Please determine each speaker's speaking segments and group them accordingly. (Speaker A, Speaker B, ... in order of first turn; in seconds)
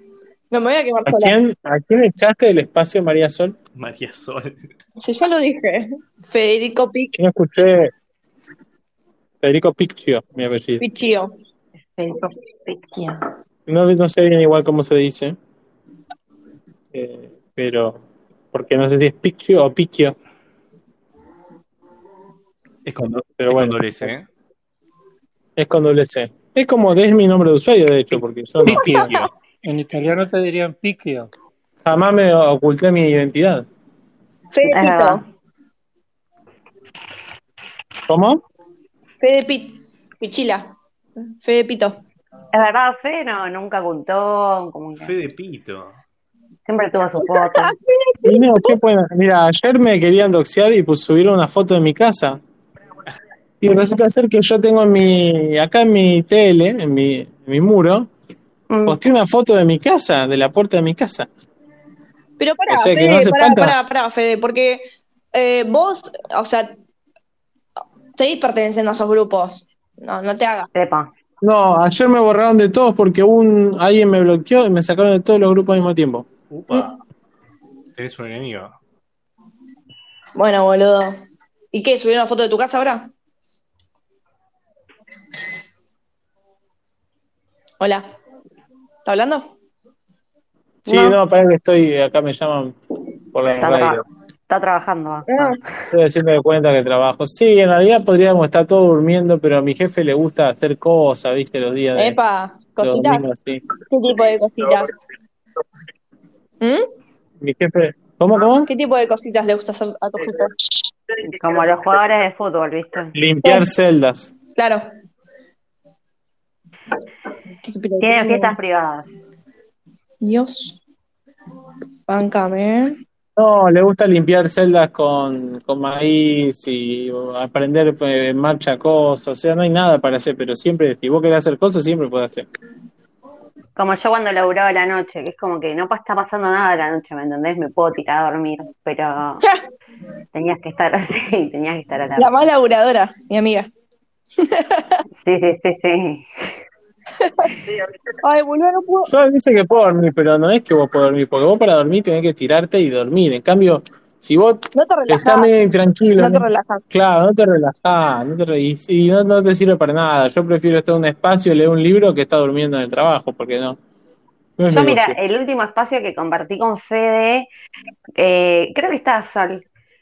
Speaker A: 0.5-1.3, 5.0-7.2, 10.8-11.3, 12.0-13.2, 34.5-35.2, 39.2-40.6, 41.4-42.0, 47.2-48.7, 62.4-66.7, 68.2-70.7, 80.4-81.1, 81.7-83.1, 89.1-89.5, 95.3-95.6, 102.0-103.2, 103.9-104.9, 108.7-110.5, 114.6-114.8, 117.6-118.6, 120.2-120.8, 122.1-123.0, 142.2-143.7, 144.4-145.0, 147.2-147.5, 148.2-149.1, 154.8-155.5, 156.2-156.8
Speaker B: 1.1-3.5, 7.2-7.9, 9.4-10.8, 13.7-15.3, 16.9-20.1, 23.4-24.1, 25.6-29.0, 31.9-33.6, 38.1-38.4, 48.2-52.4, 53.6-58.1, 58.9-61.3, 62.7-63.8, 71.4-76.3, 90.8-92.7, 93.3-94.0, 95.9-102.2, 102.8-103.6, 107.4-108.7, 113.1-114.3, 123.4-132.4, 149.1-163.8, 164.6-165.2
Speaker C: 3.8-4.6, 22.9-24.3, 28.8-29.3, 45.0-46.0, 76.5-77.0, 78.0-78.8
Speaker D: 28.7-31.3
Speaker E: 34.7-35.2, 42.5-45.1, 46.7-47.8, 58.7-59.0, 70.7-71.1, 90.9-91.2, 93.6-95.6, 111.3-113.1, 118.0-119.1, 133.8-139.5, 140.3-142.4, 145.2-146.2, 164.7-167.5, 168.2-169.7